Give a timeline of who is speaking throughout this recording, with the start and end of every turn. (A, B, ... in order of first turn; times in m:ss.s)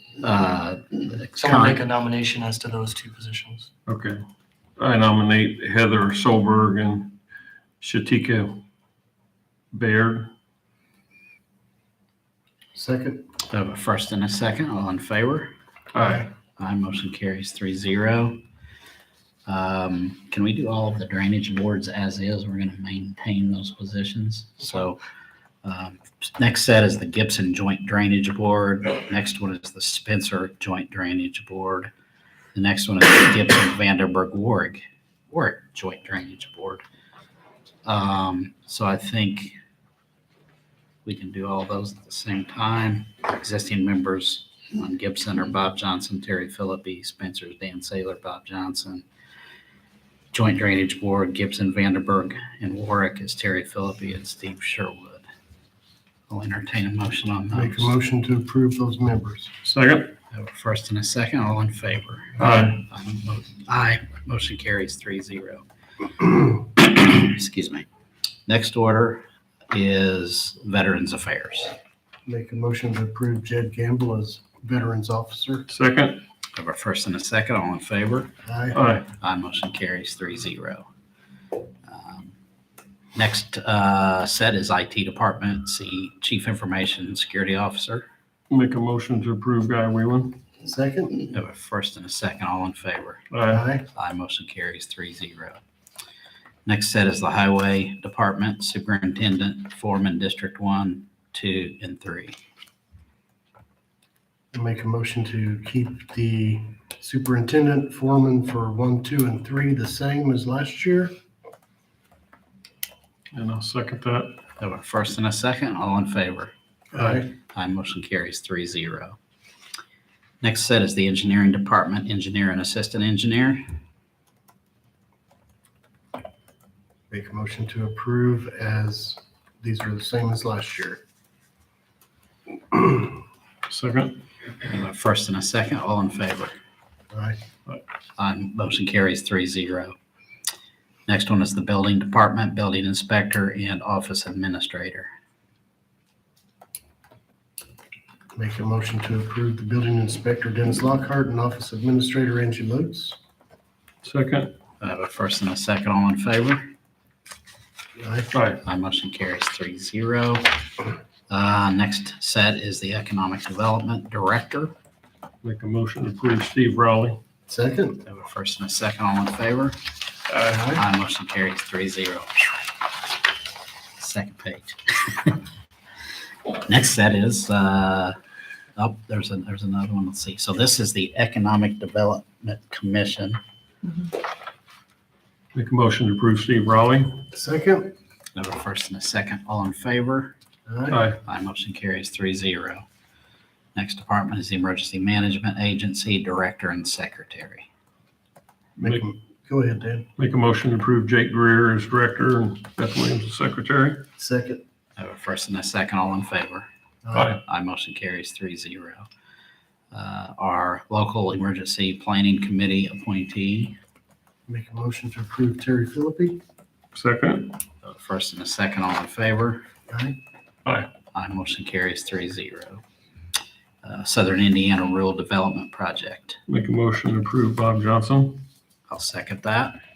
0:00.2-0:01.8 A
0:01.4-0:03.7 B
0:01.5-0:01.9 C
0:03.9-0:04.2 D
0:04.8-0:07.2 D
0:07.8-0:08.6 D
0:09.7-0:10.3 D
0:12.7-0:13.2 C
0:13.4-0:15.5 A
0:15.9-0:16.3 D
0:16.0-0:16.3 C
0:16.5-0:18.4 A
0:19.4-0:25.0 A
0:25.6-0:31.9 A
0:32.5-0:36.8 A
0:37.8-0:39.6 A
0:41.0-0:49.0 A
0:50.3-0:55.3 A
0:56.3-0:57.9 A
0:57.5-0:59.5 C
0:59.6-1:00.2 D
1:00.3-1:05.6 A
1:02.4-1:02.9 D
1:06.2-1:07.8 A
1:08.5-1:11.8 A
1:12.2-1:15.7 C
1:15.7-1:16.2 D
1:16.5-1:18.4 A
1:18.4-1:18.9 C
1:18.7-1:19.0 D
1:19.0-1:20.9 A
1:21.8-1:22.3 A
1:23.1-1:28.1 A
1:28.5-1:30.4 D
1:30.6-1:31.3 C
1:31.3-1:33.3 A
1:33.3-1:33.7 D
1:33.5-1:33.9 C
1:33.8-1:35.6 A
1:36.6-1:42.4 A
1:44.5-1:51.1 C
1:53.3-1:54.4 D
1:54.6-1:56.5 A
1:56.9-1:57.3 C
1:57.0-1:57.2 D
1:57.3-1:59.2 A
2:00.4-2:03.8 A
2:07.1-2:11.0 C
2:13.7-2:14.2 D
2:14.6-2:16.6 A
2:17.1-2:17.4 C
2:18.2-2:19.9 A
2:21.1-2:25.1 A
2:28.3-2:33.2 C
2:34.0-2:34.6 D
2:34.8-2:36.7 A
2:38.0-2:38.3 C
2:38.3-2:38.7 D
2:38.6-2:44.7 A
2:45.4-2:47.2 D
2:47.5-2:48.1 C
2:48.0-2:49.8 A
2:50.3-2:50.6 D
2:50.4-2:50.8 C
2:50.7-2:52.7 A
2:54.0-2:55.4 A
2:56.5-2:58.2 A
2:58.8-3:03.4 A
3:05.5-3:07.2 D
3:07.3-3:07.9 C
3:08.3-3:10.4 A
3:10.7-3:11.0 C
3:10.9-3:11.2 D
3:11.1-3:12.8 A
3:13.7-3:17.7 A
3:18.8-3:19.0 D
3:18.8-3:20.1 C
3:20.2-3:24.1 D
3:24.2-3:24.6 C
3:25.0-3:26.7 A
3:27.0-3:27.4 C
3:27.1-3:27.4 D
3:27.4-3:29.1 A
3:29.9-3:33.8 A
3:34.5-3:36.4 C
3:36.9-3:37.6 D
3:37.8-3:39.7 A
3:39.9-3:40.2 C
3:40.6-3:40.9 D
3:41.1-3:42.8 A
3:43.8-3:46.4 A
3:46.5-3:48.5 D
3:48.9-3:49.8 A